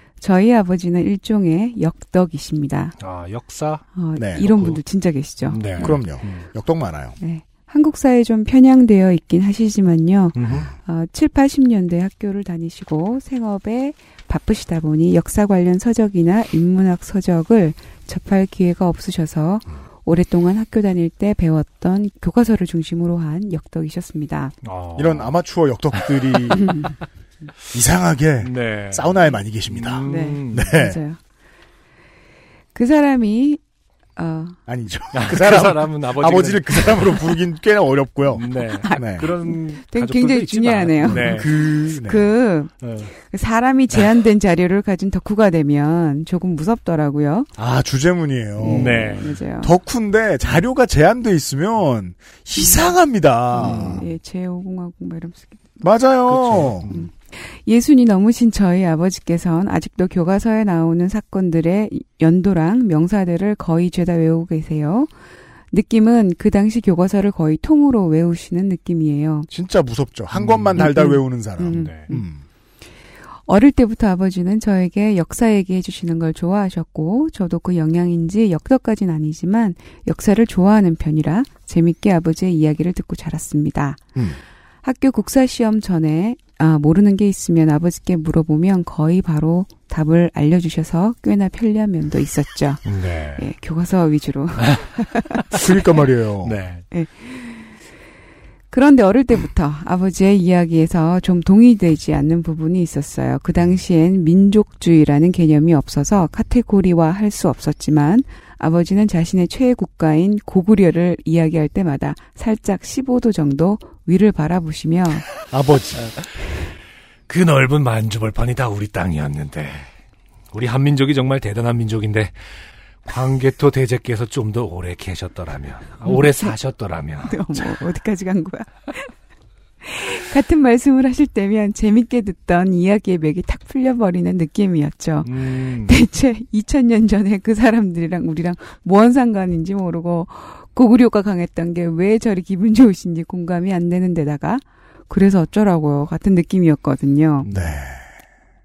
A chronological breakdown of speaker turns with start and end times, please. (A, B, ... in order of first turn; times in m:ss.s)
0:00.2-0:03.0 A
0:03.0-0:03.9 B
0:04.0-0:06.0 A
0:04.2-0:04.7 C
0:04.4-0:04.8 B
0:05.5-0:06.4 B
0:05.7-0:07.2 C
0:07.2-0:24.6 A
0:10.3-0:10.7 B
0:24.6-0:25.4 B
0:25.0-0:26.7 C
0:25.9-0:26.8 B
0:27.7-0:31.0 C
0:28.4-0:30.7 B
0:30.0-0:31.2 A
0:32.7-0:33.6 A
0:34.2-0:34.6 A
0:34.7-0:39.3 C
0:35.1-0:37.2 B
0:38.3-0:41.5 B
0:38.6-0:47.5 A
0:41.1-0:42.3 C
0:42.8-0:43.1 B
0:47.6-0:54.0 C
0:48.6-0:49.7 A
0:48.7-0:49.4 B
0:53.5-0:55.8 A
0:53.6-0:53.9 B
0:55.8-0:56.9 C
0:56.3-0:57.0 B
0:56.9-1:05.1 A
1:05.7-1:09.5 A
1:09.5-1:12.4 C
1:10.3-1:10.9 B
1:10.8-1:12.3 A
1:11.7-1:12.1 B
1:13.4-1:24.0 A
1:24.8-1:35.4 A
1:32.8-1:33.5 B
1:34.6-1:35.6 B
1:35.5-1:36.6 C
1:36.4-1:36.8 B
1:36.9-1:37.7 A
1:38.7-1:55.2 A
1:55.5-1:56.0 C
1:57.3-1:59.9 B
2:00.5-2:02.3 B
2:03.0-2:07.7 B
2:06.0-2:06.5 A
2:07.3-2:09.1 A
2:09.8-2:27.5 A
2:15.2-2:16.0 B
2:27.4-2:27.8 B
2:27.5-2:28.0 C